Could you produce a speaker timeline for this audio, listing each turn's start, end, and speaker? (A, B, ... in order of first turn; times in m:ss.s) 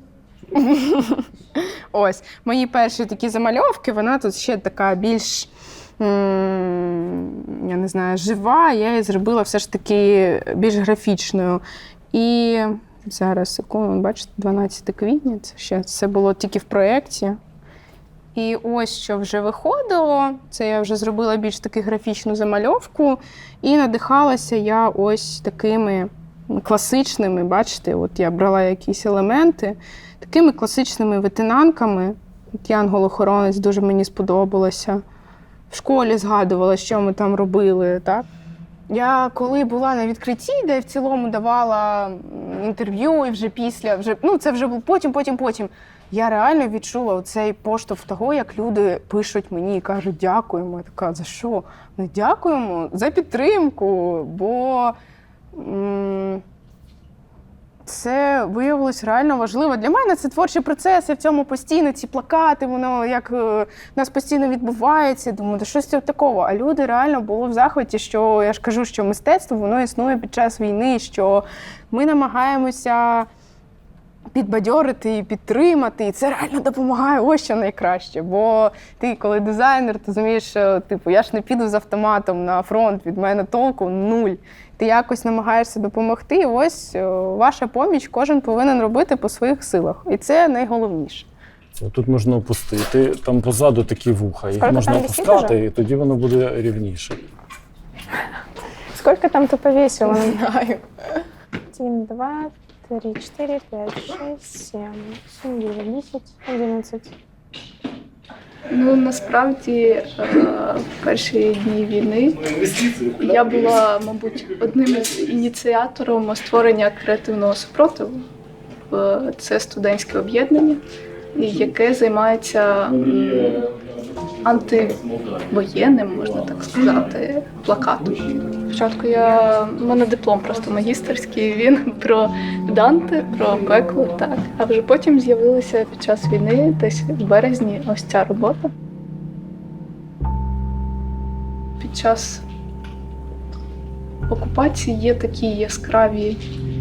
0:00.5-0:17.4 A
0:18.3-0:35.0 A
0:35.7-0:38.2 A
0:38.9-0:55.0 A
0:55.5-0:56.4 A
0:57.8-1:13.3 A
1:14.3-1:31.3 A
1:31.7-1:37.2 B
1:34.6-1:35.6 C
1:38.9-1:40.4 C
1:40.0-1:40.8 A
1:41.7-1:47.1 C
1:48.7-1:52.4 D
1:52.3-1:53.8 B
1:53.2-1:58.2 D
1:54.7-1:55.4 B
1:58.9-2:00.8 D
2:01.3-2:03.6 D
2:02.8-2:07.1 B
2:04.4-2:05.0 D
2:05.5-2:18.7 D
2:07.9-2:08.2 B
2:21.8-2:22.4 D
2:24.3-2:26.4 D